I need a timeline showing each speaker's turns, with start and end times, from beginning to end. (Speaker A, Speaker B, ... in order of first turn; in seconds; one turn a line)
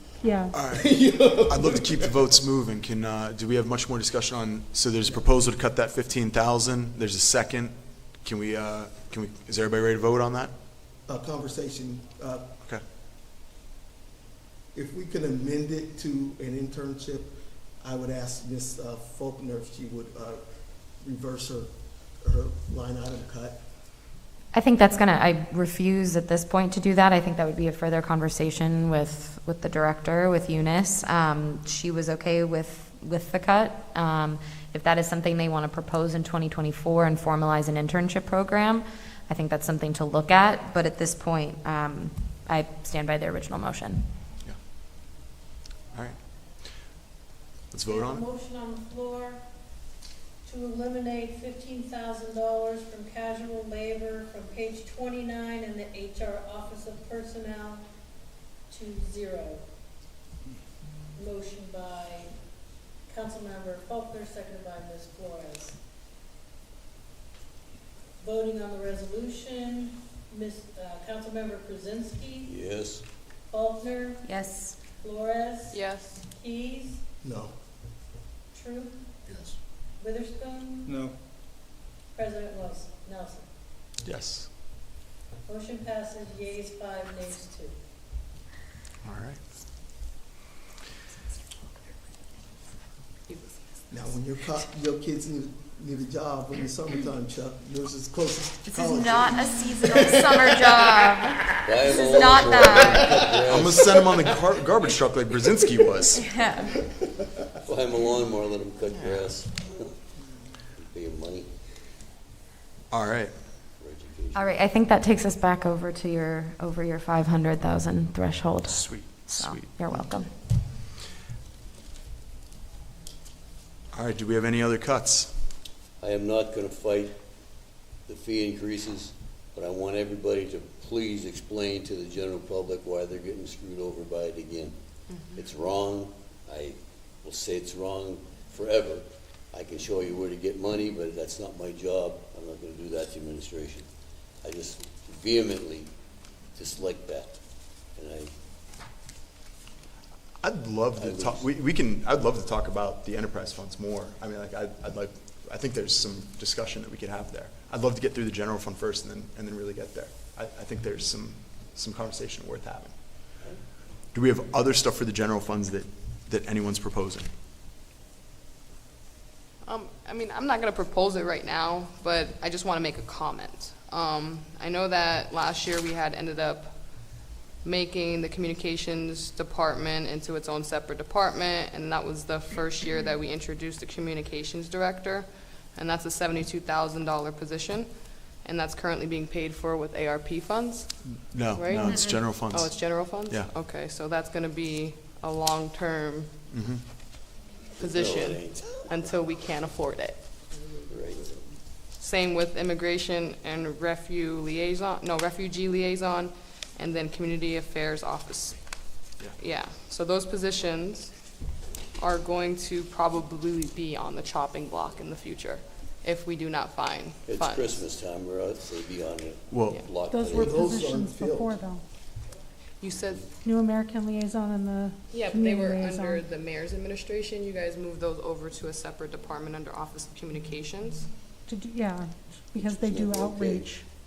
Speaker A: 0.2-0.5
Speaker B: 0.4-2.3
Speaker C: 0.5-0.9
Speaker C: 1.4-10.5
Speaker B: 11.1-12.5
Speaker B: 14.7-20.4
Speaker B: 21.0-23.6
Speaker D: 24.5-44.1
Speaker C: 47.7-48.2
Speaker E: 47.9-49.4
Speaker E: 50.4-57.9
Speaker E: 58.7-59.6
Speaker E: 61.1-62.3
Speaker E: 63.1-65.8
Speaker E: 68.2-72.5
Speaker F: 72.4-73.0
Speaker E: 73.5-77.0
Speaker D: 74.2-74.8
Speaker G: 75.7-76.2
Speaker B: 77.2-77.5
Speaker E: 78.5-79.1
Speaker E: 80.0-81.0
Speaker E: 82.1-83.5
Speaker C: 84.0-84.5
Speaker E: 85.5-87.8
Speaker C: 89.0-89.4
Speaker G: 93.3-93.5
Speaker B: 93.9-101.1
Speaker D: 98.6-103.1
Speaker F: 101.6-104.0
Speaker C: 103.4-106.3
Speaker D: 106.3-106.7
Speaker F: 107.6-110.0
Speaker C: 108.9-109.3
Speaker F: 110.7-111.6
Speaker C: 112.9-113.3
Speaker F: 113.8-114.7
Speaker D: 114.3-120.3
Speaker C: 118.7-120.3
Speaker C: 123.9-125.5
Speaker F: 126.0-127.2
Speaker F: 128.1-134.8
Speaker G: 135.1-135.4
Speaker F: 135.3-143.9
Speaker F: 144.4-145.9
Speaker F: 146.5-147.4
Speaker F: 147.9-148.3
Speaker C: 150.4-162.9
Speaker F: 150.9-151.5
Speaker C: 164.1-167.3
Speaker G: 169.6-196.3
Speaker C: 191.3-193.5
Speaker C: 196.5-196.8
Speaker F: 197.8-199.1
Speaker G: 197.8-200.2
Speaker F: 200.9-201.4
Speaker G: 202.0-211.1
Speaker G: 212.0-217.8
Speaker F: 217.3-220.6
Speaker C: 219.5-219.8
Speaker A: 220.1-221.8
Speaker B: 220.3-221.6
Speaker G: 222.8-223.2
Speaker A: 223.4-226.2
Speaker G: 225.1-231.1
Speaker A: 231.4-233.8
Speaker F: 232.6-233.8